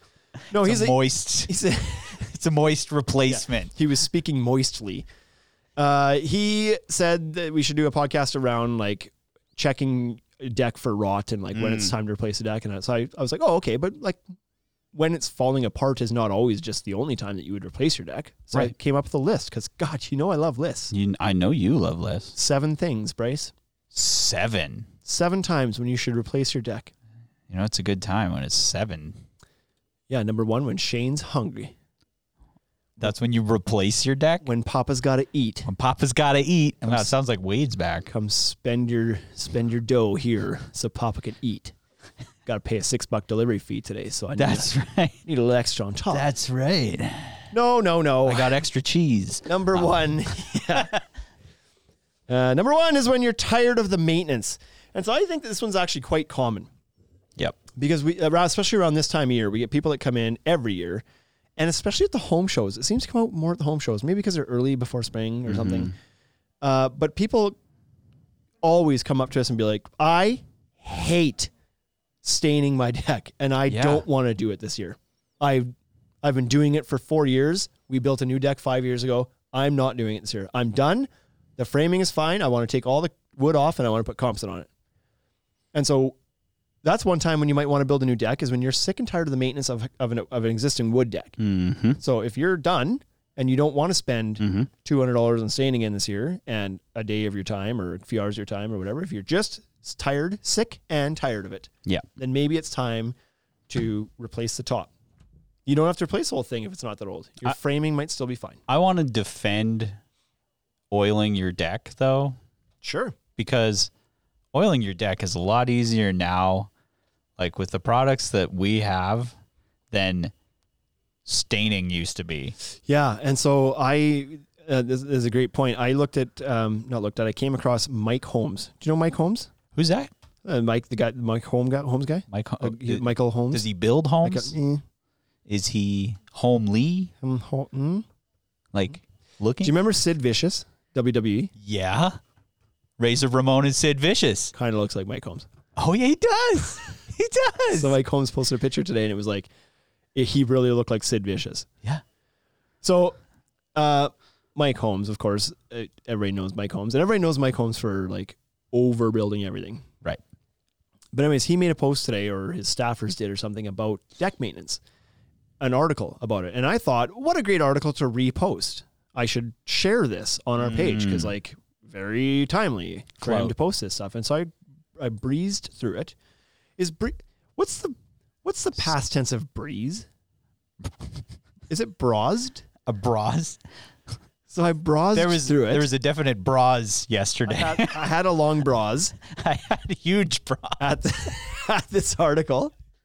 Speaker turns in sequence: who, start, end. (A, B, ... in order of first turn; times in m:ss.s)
0:00.5-0:02.2 A
0:00.5-0:01.6 B
0:02.1-0:03.7 B
0:03.3-0:05.1 A
0:05.8-0:14.2 A
0:11.5-0:11.9 B
0:14.9-0:20.9 A
0:20.9-0:22.3 B
0:22.3-0:23.5 A
0:23.9-0:24.9 B
0:25.0-0:26.9 A
0:27.5-0:29.2 B
0:30.1-0:31.7 A
0:33.0-0:34.4 B
0:34.4-0:35.7 A
0:35.6-0:38.1 B
0:36.8-0:37.1 A
0:38.1-0:41.7 A
0:42.4-0:44.7 A
0:44.3-0:45.2 B
0:45.2-0:46.3 A
0:46.1-0:47.5 B
0:47.5-0:48.6 A
0:48.2-0:49.9 B
0:49.4-0:50.9 A
0:50.7-0:51.0 B
0:52.3-0:56.7 A
0:57.7-1:01.0 A
1:01.6-1:05.9 A
1:05.5-1:05.9 B
1:06.6-1:07.6 A
1:08.6-1:11.5 A
1:12.2-1:24.7 A
1:13.7-1:14.0 B
1:25.7-1:26.2 A
1:26.8-1:31.4 A
1:31.4-1:32.0 B
1:32.0-1:43.1 A
1:34.4-1:34.7 B
1:43.7-1:44.9 A
1:45.6-1:48.6 A
1:48.7-1:50.0 B
1:50.9-1:52.4 B
1:52.8-1:53.2 A
1:53.4-1:53.9 B
1:54.5-1:56.7 B
1:57.4-1:59.4 B
1:59.9-2:00.3 B
2:01.2-2:02.5 B
2:02.8-2:09.5 A
2:09.7-2:10.1 B
2:10.4-2:13.6 A
2:12.3-2:14.5 B
2:14.2-2:14.8 A
2:15.4-2:17.1 B
2:17.2-2:18.0 A
2:18.7-2:19.7 B
2:19.6-2:21.5 A
2:21.6-2:22.2 B
2:23.0-2:24.5 B
2:24.5-2:25.5 A
2:25.8-2:28.0 B
2:27.7-2:29.5 A
2:30.1-2:31.7 A
2:32.8-2:33.2 A
2:33.7-2:39.9 A
2:41.1-2:44.8 A
2:45.6-2:56.1 A
2:50.6-2:51.3 B
2:53.2-2:53.5 B
2:56.8-3:00.0 A
3:01.7-3:02.6 A
3:02.8-3:03.6 B
3:04.5-3:05.9 A
3:05.1-3:08.0 B
3:07.4-3:09.2 A
3:09.2-3:10.8 B
3:10.8-3:12.7 A